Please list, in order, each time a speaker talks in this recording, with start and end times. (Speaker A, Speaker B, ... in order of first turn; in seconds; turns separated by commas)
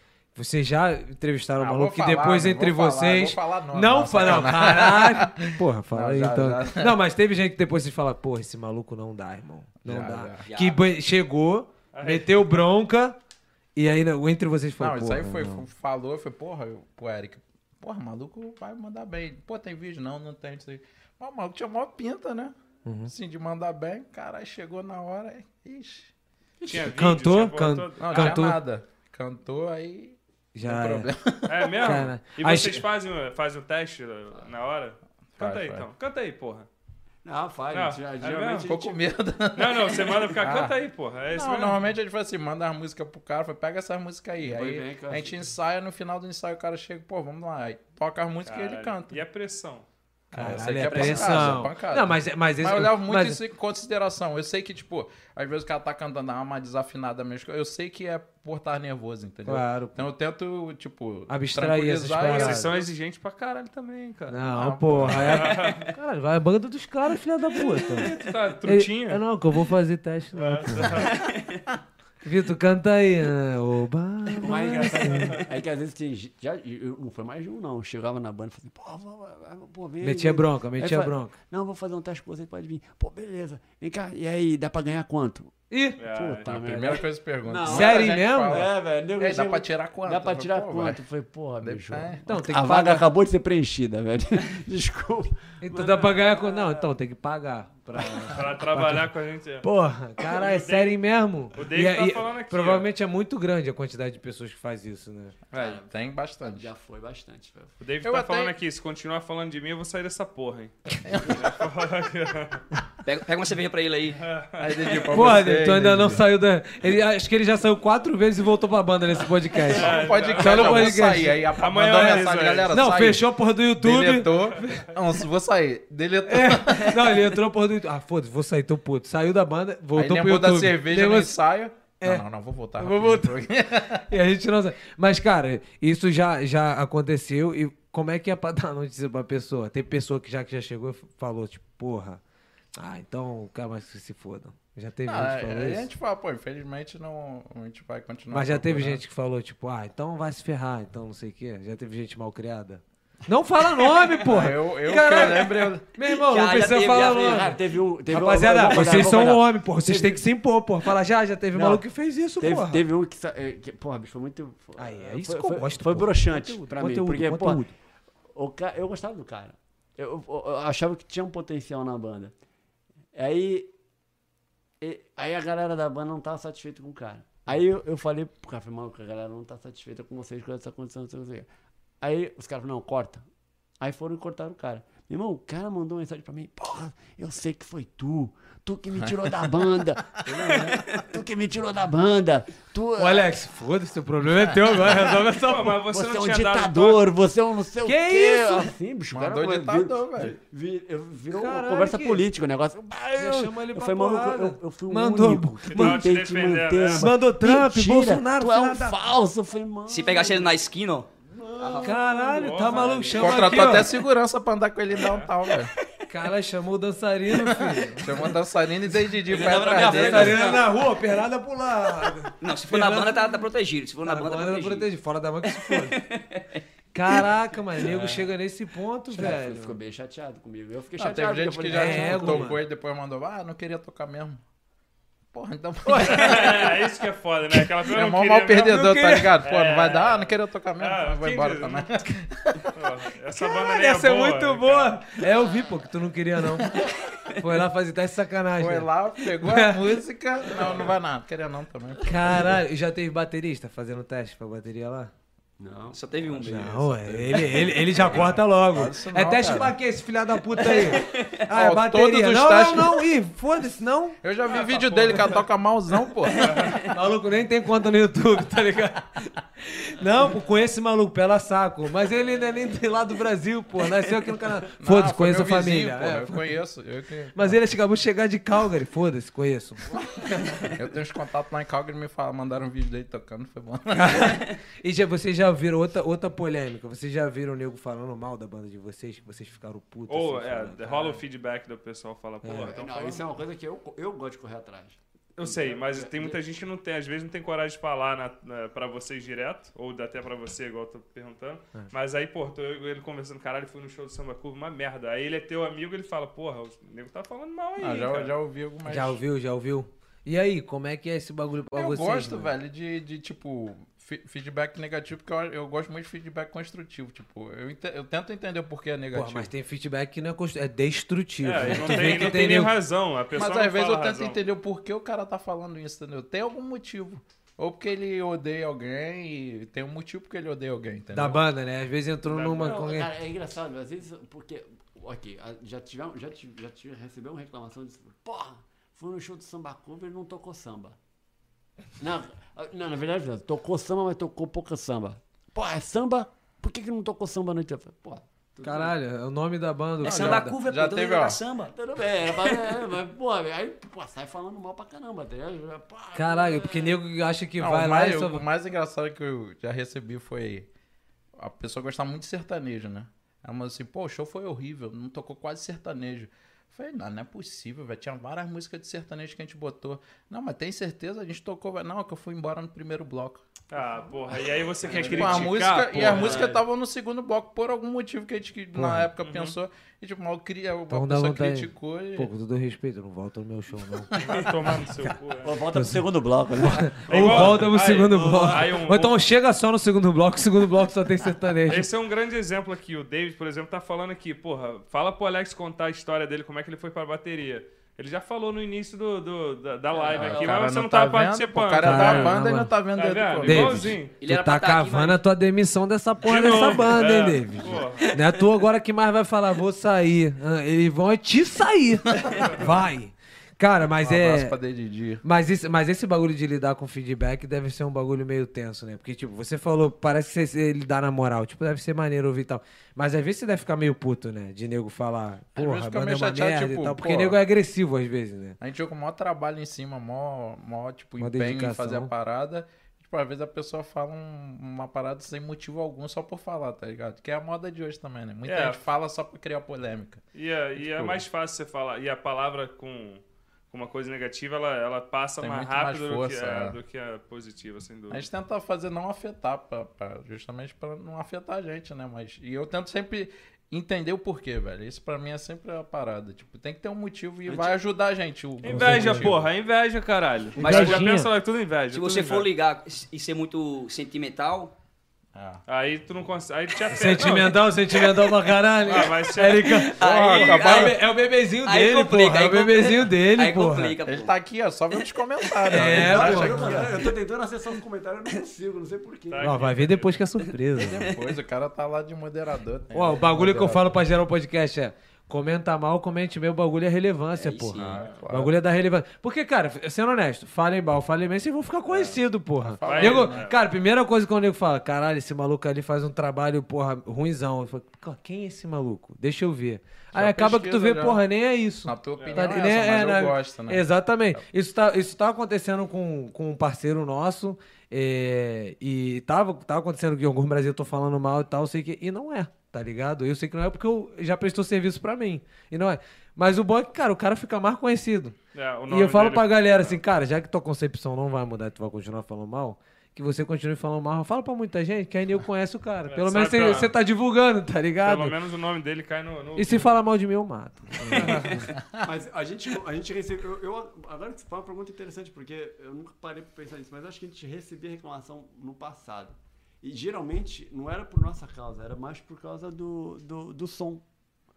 Speaker A: 0.3-13.2, Speaker B: 1.6-6.9, Speaker B: 9.8-10.5, Speaker C: 10.4-10.8, Speaker D: 11.9-12.4, Speaker A: 13.8-15.6, Speaker B: 14.8-22.5, Speaker A: 22.8-23.1, Speaker B: 23.1-26.1, Speaker D: 26.6-28.4, Speaker A: 26.6-28.6, Speaker B: 28.0-32.0, Speaker A: 30.5-31.1, Speaker D: 31.5-36.7, Speaker A: 31.8-32.8, Speaker B: 35.4-35.9, Speaker E: 37.2-39.0, Speaker D: 37.7-38.7, Speaker B: 38.6-40.8, Speaker D: 39.5-41.8, Speaker B: 41.3-49.2, Speaker E: 44.4-45.5, Speaker D: 48.5-49.9, Speaker B: 50.3-62.8, Speaker A: 50.3-53.4, Speaker C: 50.8-51.5, Speaker A: 59.5-60.0, Speaker A: 61.3-62.7, Speaker D: 62.2-64.4, Speaker A: 64.3-71.1, Speaker B: 64.5-65.5, Speaker D: 65.0-65.9, Speaker D: 67.6-69.2, Speaker D: 70.3-71.2, Speaker C: 71.1-71.6, Speaker A: 72.2-75.4, Speaker E: 74.4-96.9, Speaker D: 74.7-75.5, Speaker A: 80.0-81.3, Speaker A: 85.7-86.0, Speaker D: 86.0-86.8, Speaker B: 86.5-91.0, Speaker A: 87.6-88.7, Speaker B: 91.6-92.3, Speaker A: 92.3-93.0, Speaker A: 95.6-99.1, Speaker D: 98.3-99.7, Speaker A: 99.6-105.3, Speaker D: 100.2-101.0, Speaker D: 101.5-102.9, Speaker D: 105.5-105.8, Speaker E: 105.5-107.8, Speaker B: 105.9-106.7, Speaker D: 107.8-110.7, Speaker B: 108.0-108.5, Speaker B: 111.0-111.6, Speaker D: 111.3-112.6, Speaker C: 113.0-114.2, Speaker D: 114.2-115.2, Speaker B: 114.6-116.3, Speaker A: 115.1-124.8, Speaker D: 119.7-122.8, Speaker B: 119.7-127.3, Speaker A: 126.3-131.3, Speaker B: 129.9-134.1, Speaker A: 132.8-133.4, Speaker A: 134.1-142.2, Speaker A: 142.7-145.9, Speaker B: 145.1-149.0, Speaker A: 148.3-162.8, Speaker B: 154.1-155.9, Speaker C: 156.2-157.6, Speaker E: 157.0-160.2, Speaker E: 161.5-161.8, Speaker E: 162.4-167.6, Speaker A: 164.8-167.7, Speaker E: 168.3-172.3, Speaker E: 173.1-173.7, Speaker E: 174.8-181.5, Speaker E: 182.0-183.2, Speaker E: 183.8-193.4, Speaker B: 188.9-189.9, Speaker A: 193.0-195.8, Speaker E: 194.8-195.2, Speaker D: 195.3-197.1, Speaker E: 195.8-210.6, Speaker A: 197.8-198.7, Speaker B: 199.1-200.3, Speaker A: 201.3-202.2, Speaker A: 203.1-206.1, Speaker D: 205.7-207.1, Speaker A: 206.8-209.0, Speaker C: 209.9-212.0, Speaker E: 211.2-213.8, Speaker A: 211.8-213.9, Speaker D: 212.4-213.0, Speaker B: 213.2-215.7, Speaker D: 214.9-215.3, Speaker A: 216.1-218.3, Speaker B: 217.4-220.5, Speaker C: 219.3-220.7, Speaker E: 219.4-220.5, Speaker A: 219.6-223.3, Speaker C: 222.4-224.9, Speaker A: 224.0-226.0, Speaker C: 225.5-226.6, Speaker A: 226.9-229.8, Speaker E: 229.1-232.5, Speaker B: 231.0-234.4, Speaker A: 231.7-232.6, Speaker B: 235.3-236.8, Speaker A: 235.9-236.1, Speaker D: 236.0-241.9, Speaker B: 237.8-242.7, Speaker A: 238.6-239.3, Speaker D: 242.7-245.2, Speaker A: 243.4-249.9, Speaker B: 248.6-252.6, Speaker D: 250.6-250.9, Speaker A: 252.0-255.1, Speaker E: 255.6-256.5, Speaker C: 255.9-257.6, Speaker A: 256.4-264.2, Speaker E: 257.3-258.1, Speaker B: 258.0-259.7, Speaker C: 260.6-261.4, Speaker B: 261.5-263.1, Speaker B: 264.2-266.8, Speaker D: 264.5-265.4, Speaker D: 266.4-266.8, Speaker C: 266.5-266.9, Speaker A: 266.9-276.6, Speaker B: 274.8-277.6, Speaker A: 277.3-279.9, Speaker B: 280.7-284.3, Speaker A: 283.9-291.2, Speaker D: 290.1-293.3, Speaker A: 292.4-292.7, Speaker E: 292.6-296.4, Speaker D: 295.4-308.3, Speaker B: 307.8-309.2, Speaker A: 308.9-312.5, Speaker B: 311.7-319.5, Speaker A: 319.1-322.7, Speaker D: 321.4-324.4, Speaker B: 323.3-331.4, Speaker A: 331.1-333.1, Speaker D: 332.2-332.8, Speaker E: 332.5-341.0, Speaker E: 342.0-348.9, Speaker A: 348.6-350.6, Speaker C: 350.0-351.7, Speaker B: 350.0-351.4, Speaker E: 351.7-357.0, Speaker C: 352.4-352.7, Speaker A: 356.1-358.4, Speaker B: 357.6-360.7, Speaker B: 361.4-373.4, Speaker D: 373.7-376.6, Speaker E: 374.8-376.6, Speaker B: 374.9-382.3, Speaker A: 378.7-379.1, Speaker D: 379.2-379.6, Speaker A: 380.9-384.1, Speaker B: 383.9-384.9, Speaker D: 384.2-385.6, Speaker E: 385.4-387.7, Speaker A: 385.7-386.0, Speaker A: 386.6-391.9, Speaker D: 387.1-389.2, Speaker D: 391.7-402.4, Speaker C: 400.1-400.5, Speaker B: 400.1-404.0, Speaker A: 401.8-402.7, Speaker D: 402.9-404.1, Speaker A: 403.4-414.5, Speaker C: 404.2-405.2, Speaker D: 406.2-408.1, Speaker B: 414.0-415.2, Speaker A: 415.2-428.6, Speaker B: 425.6-427.4, Speaker B: 428.6-440.2, Speaker A: 431.2-432.1, Speaker D: 438.4-438.8, Speaker D: 440.3-448.2, Speaker B: 440.8-441.2, Speaker B: 445.4-446.8, Speaker B: 448.1-459.5, Speaker E: 457.4-457.8, Speaker D: 458.6-462.5, Speaker A: 458.7-459.3, Speaker C: 460.6-461.1, Speaker A: 460.6-461.3, Speaker C: 461.9-464.7, Speaker B: 465.3-465.6, Speaker D: 465.7-467.6, Speaker A: 466.9-474.0, Speaker D: 468.9-470.3, Speaker C: 469.9-471.0, Speaker B: 470.0-471.0, Speaker C: 471.6-474.3, Speaker B: 474.0-476.9, Speaker A: 475.7-476.9, Speaker E: 475.8-479.5, Speaker D: 479.3-480.2, Speaker A: 479.4-481.1, Speaker B: 480.8-484.0, Speaker C: 480.8-481.2, Speaker A: 482.9-518.4, Speaker C: 487.4-488.1, Speaker B: 487.7-488.6, Speaker B: 492.6-493.5, Speaker D: 492.8-493.5, Speaker B: 500.1-501.2, Speaker B: 501.8-504.4, Speaker D: 502.2-502.4, Speaker D: 518.5-520.0, Speaker A: 518.9-528.4, Speaker D: 526.1-526.9, Speaker D: 528.0-530.0, Speaker A: 529.5-531.6, Speaker D: 531.1-531.7, Speaker E: 532.0-544.0